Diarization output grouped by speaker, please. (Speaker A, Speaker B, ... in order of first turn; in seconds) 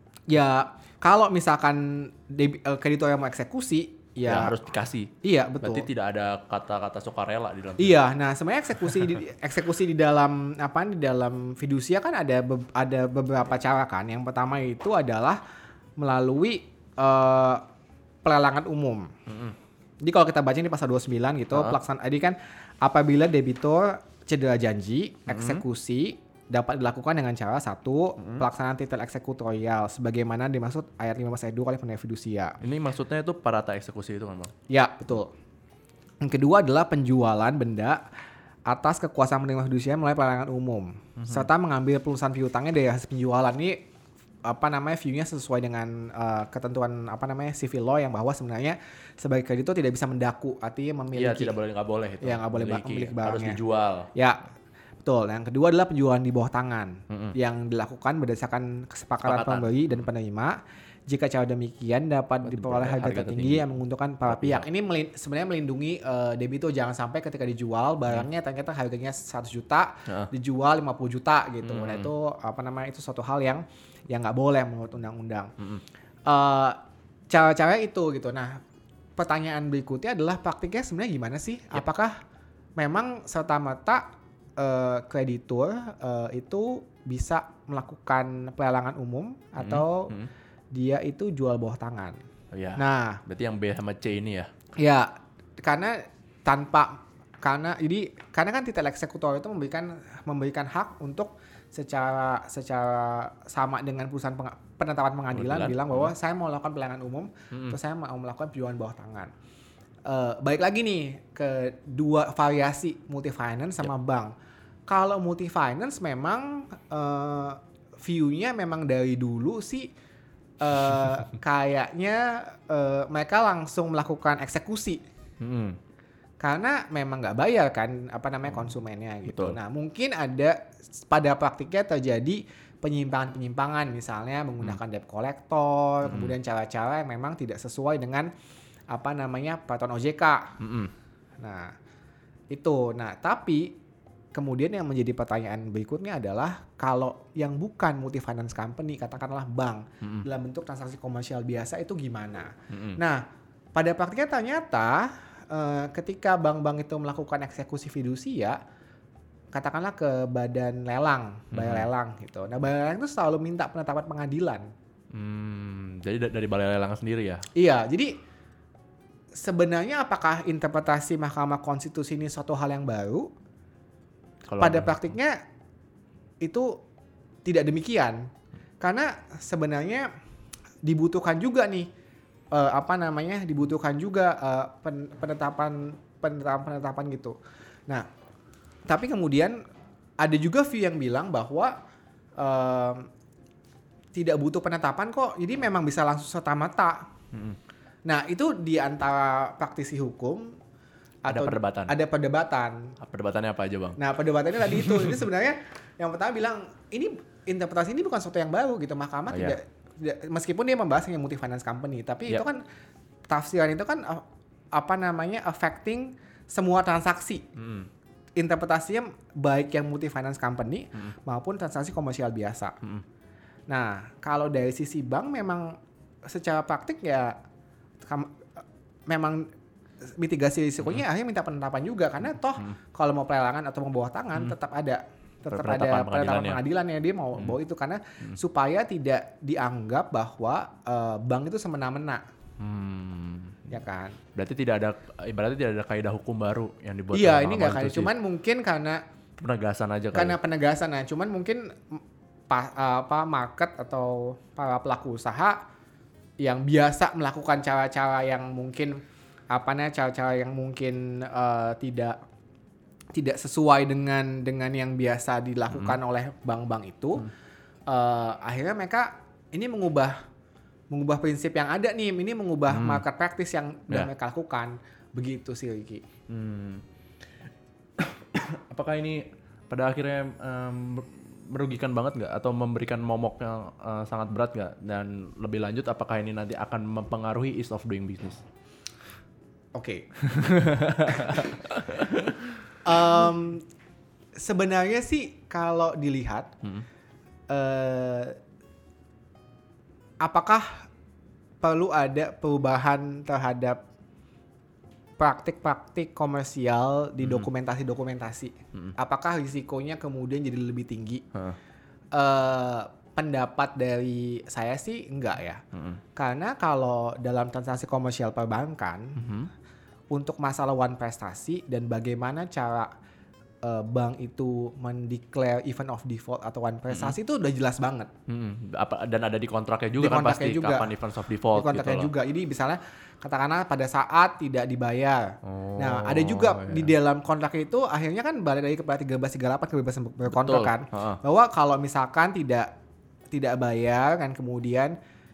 Speaker A: 0.3-4.6, 5.2-5.8, 7.8-15.4, 16.0-17.6, 18.2-19.1, 20.0-32.6, 34.7-35.3, 36.2-38.0, 38.7-43.8, 44.5-51.5, 52.2-53.6, 54.1-54.5, 55.0-75.5, 76.3-76.8, 77.3-78.6, 79.2-82.2, 82.8-84.0, 84.6-90.1, 90.7-92.2, 92.8-93.2, 94.8-109.3, 110.0-114.3, 114.9-119.9, 120.6-125.0, 126.4-138.3, 138.9-140.5, 141.4-141.7, 142.5-143.7, 144.3-153.2, 153.8-158.6, 159.5-164.7, 167.5-168.1, 169.3-173.3, 174.6-175.4, 176.4-176.8, 177.4-178.3, 178.8-180.1, 180.8-181.9, 182.5-187.3, 188.9-189.6, 190.2-191.7, 192.4-193.1, 194.1-197.1, 198.1-200.6, 201.2-202.9, 204.0-212.6, 213.3-217.4, 218.4-222.8, 223.7-225.8, 226.3-227.4, 228.0-228.4, 229.1-229.5, 230.2-242.2, 243.7-244.2, 247.1-249.0, 250.1-255.6, 256.4-262.2, 263.1-267.3, 267.9-270.1, 270.9-276.0, 289.7-290.1, 291.1-291.5, 292.8-293.6, 294.4-296.5, 297.5-298.4, 300.2-300.9, 301.6-303.8, 305.2-311.2, 312.1-315.6, 316.1-319.3, 320.1-322.9, 323.6-328.1, 330.0-330.9, 331.5-342.7, 343.3-344.9
Speaker B: 4.2-8.0, 19.3-19.5, 25.3-25.6, 32.6-34.5, 41.2-41.5, 51.1-54.1, 57.1-57.3, 59.2-59.9, 62.4-63.6, 64.3-64.7, 71.6-72.1, 89.6-90.3, 92.5-94.5, 105.3-106.1, 107.5-107.8, 125.4-125.8, 129.3-129.6, 136.0-136.3, 140.6-140.9, 152.7-153.0, 161.5-161.9, 165.1-167.4, 174.4-175.0, 197.3-197.6, 201.3-201.9, 203.0-204.0, 204.7-205.1, 209.3-209.6, 217.6-217.9, 235.5-236.6, 242.6-243.7, 244.3-248.1, 249.4-250.4, 265.7-266.0, 272.7-273.0, 276.3-276.8, 278.0-288.4, 290.2-292.8, 307.2-307.5, 315.7-316.0, 319.1-319.5, 326.9-327.1, 328.3-332.1, 335.4-336.9, 340.3-341.2